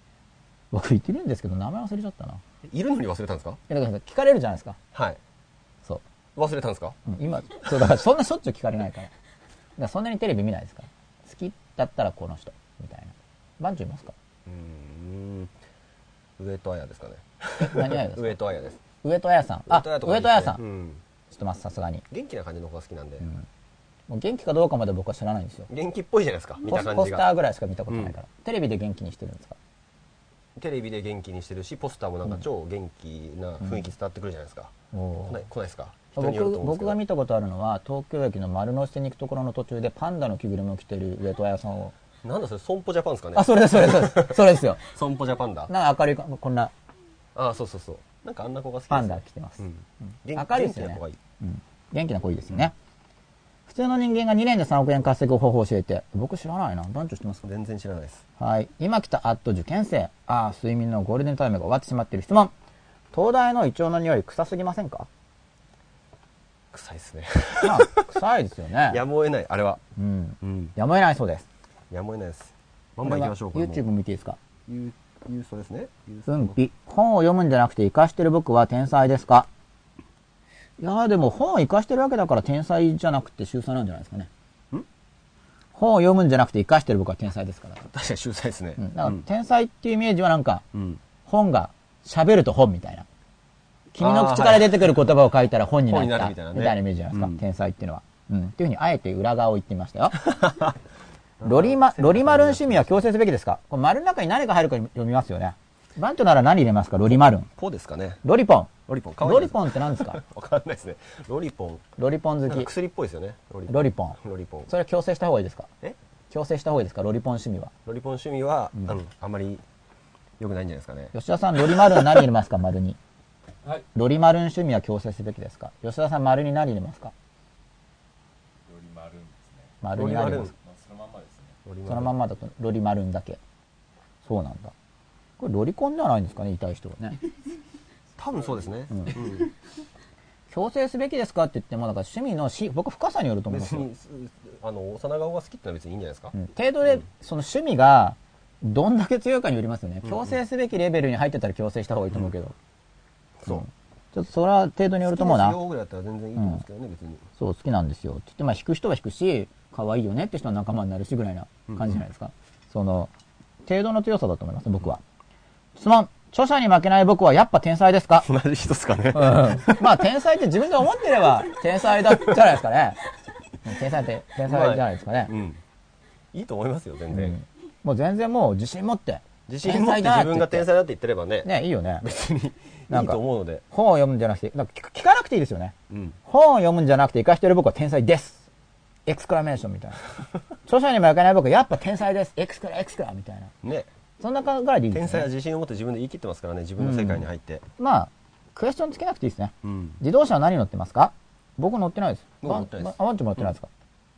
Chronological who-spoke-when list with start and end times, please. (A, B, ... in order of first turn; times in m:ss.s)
0:00.7-0:02.4 A
0:02.7-0:03.6 B
0:03.7-0:04.8 A
0:04.9-0:05.2 B
0:06.4-0:07.0 B
0:07.1-0:09.1 A
0:09.8-0:14.1 A
0:14.5-0:15.5 B
0:16.4-0:18.8 B
0:17.6-0:18.4 A
0:19.0-0:20.6 A
0:19.7-0:21.0 B
0:21.3-0:22.0 A
0:22.1-0:23.3 B
0:24.1-0:25.7 A
0:25.7-0:27.3 B
0:26.7-0:29.6 A
0:27.9-0:28.1 B
0:30.6-0:34.7 B
0:34.9-0:35.4 A
0:35.3-0:37.0 B
0:36.2-0:41.9 A
0:42.2-0:45.7 B
0:43.3-0:44.8 A
0:45.7-0:46.7 A
0:47.4-0:51.2 B
0:48.9-0:49.7 A
0:50.3-0:52.7 A
0:53.7-0:57.4 A
0:57.4-0:58.2 B
0:58.4-1:02.5 A
1:03.1-1:05.1 A
1:06.7-1:08.1 B
1:07.6-1:09.0 A
1:08.9-1:09.8 B
1:10.0-1:11.5 A
1:10.4-1:10.7 B
1:11.9-1:13.9 B
1:13.0-1:14.4 A
1:14.7-1:16.6 B
1:16.3-1:19.5 A
1:20.8-1:24.3 A
1:25.8-1:27.9 A
1:27.9-1:29.2 B
1:28.8-1:30.6 A
1:30.7-1:31.0 B
1:31.3-1:33.1 A
1:33.9-1:40.2 A
1:34.0-1:35.0 B
1:35.9-1:37.4 B
1:40.2-1:40.8 B
1:41.4-1:43.1 B
1:41.4-1:47.5 A
1:47.6-1:48.2 B
1:48.2-1:48.7 A
1:48.9-1:51.8 B
1:49.2-1:50.2 A
1:52.0-1:52.7 A
1:52.5-1:54.7 B
1:53.7-1:55.7 A
1:56.3-1:57.7 A
1:57.9-1:59.6 B
2:00.4-2:02.2 B
2:01.1-2:03.0 A
2:03.9-2:07.1 A
2:08.7-2:09.8 C
2:09.8-2:10.5 A
2:10.0-2:10.5 B
2:10.5-2:11.6 C
2:11.6-2:12.2 B
2:11.9-2:13.4 A
2:14.2-2:14.7 A
2:15.4-2:17.2 A
2:18.2-2:19.5 B
2:18.3-2:18.7 C
2:18.9-2:19.2 A
2:20.5-2:23.9 A
2:23.5-2:26.3 B
2:26.3-2:32.6 A
2:33.4-2:33.6 B
2:33.5-2:35.6 A
2:35.0-2:37.3 B
2:36.4-2:36.6 A
2:37.4-2:43.1 A
2:41.7-2:42.0 B
2:43.7-2:45.0 A
2:45.8-2:48.3 A
2:48.2-2:50.0 B
2:49.1-2:53.0 A
2:52.1-2:52.4 B
2:53.6-2:55.3 A
2:54.5-2:55.6 B
2:56.3-2:57.4 B
2:57.1-3:00.7 A
2:59.5-3:01.5 B
3:01.4-3:02.1 A
3:02.0-3:03.6 B
3:02.9-3:05.8 A
3:05.9-3:06.2 B
3:06.3-3:08.5 A
3:09.1-3:10.1 A
3:10.6-3:13.5 A
3:13.6-3:13.9 B
3:14.2-3:15.3 A
3:14.9-3:17.6 B
3:16.8-3:17.3 A
3:17.8-3:23.7 A
3:19.6-3:20.0 B
3:22.4-3:23.5 B